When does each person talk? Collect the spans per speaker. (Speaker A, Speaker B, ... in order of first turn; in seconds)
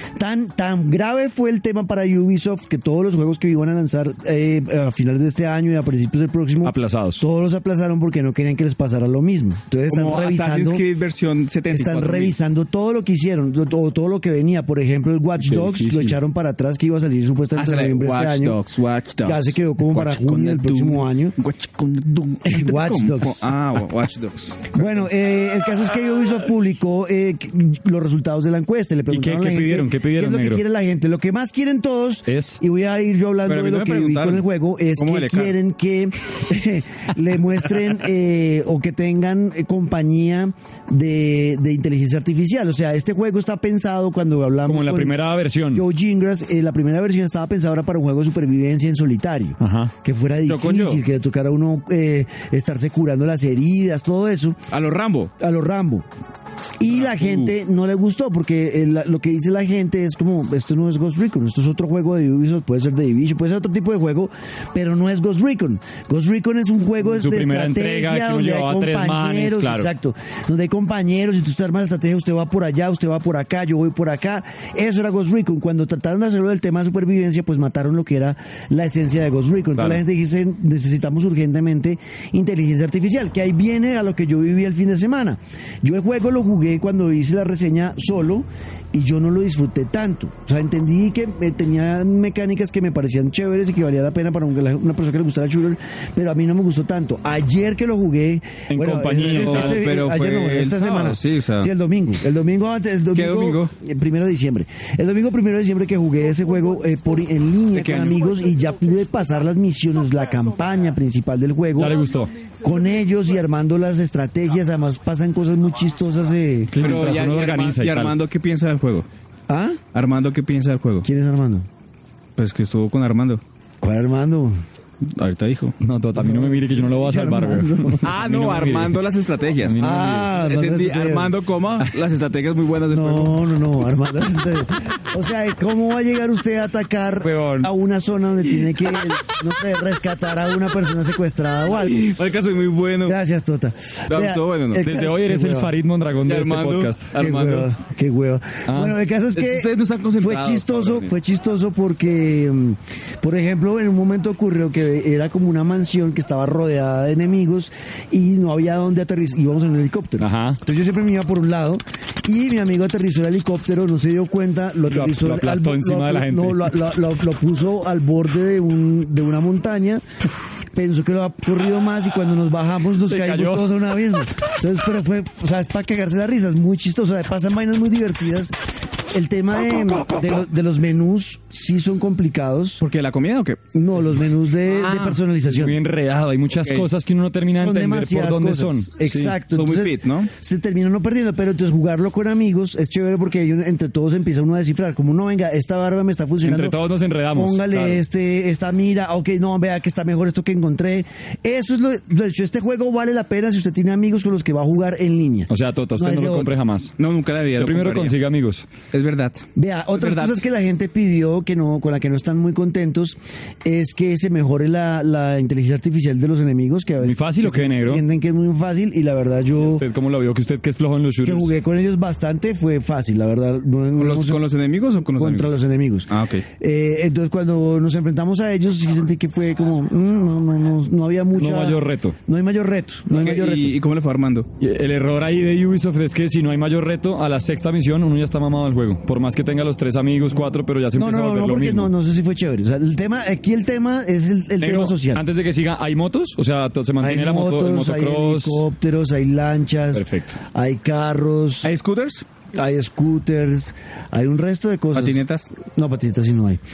Speaker A: 0.2-10.8, 11.7-18.6, 19.2-21.4, 22.4-23.5, 24.7-45.2, 45.7-54.6, 55.4-56.1, 56.8-112.0, 112.6-116.9, 119.5-119.8, 121.0-121.7, 123.8-124.6, 126.2-128.1, 129.8-131.4, 132.9-142.2, 143.1-145.7, 147.2-170.0, 170.7-178.5, 179.1-182.8, 183.8-185.8, 187.6-196.8, 197.3-206.5, 209.6-219.9, 221.2-224.4, 225.2-233.8, 241.0-245.2, 247.0-251.7, 252.5-256.6
Speaker B: 6.6-7.2, 15.4-16.2, 29.1-30.6, 32.3-32.6, 44.7-45.9, 49.6-49.9, 67.0-69.9, 98.7-99.8, 111.8-112.3, 116.7-118.2, 125.8-129.0, 129.6-130.3, 137.2-137.7, 144.8-147.1, 148.7-149.0, 160.2-160.6, 164.9-166.8, 173.1-173.9, 185.5-189.4, 196.4-198.0, 205.5-207.0, 207.6-208.7, 217.0-218.1, 219.7-221.5, 231.4-232.2, 234.6-241.9, 244.6-248.6, 249.9-250.4
Speaker C: 9.9-12.4, 17.6-25.1, 33.5-35.6, 50.5-51.0, 54.7-55.3, 56.9-57.5, 99.2-101.7, 103.1-103.7, 107.7-108.2, 116.8-119.1, 119.9-121.1, 122.4-123.4, 125.0-125.8, 128.0-129.8, 130.3-133.4, 141.7-143.2, 144.1-144.9, 146.3-147.7, 149.3-151.1, 182.8-183.8, 184.7-185.2, 189.5-190.3, 207.0-208.2, 208.9-210.4, 224.0-225.5, 226.1-226.5, 233.1-234.5, 251.6-252.2, 254.9-255.5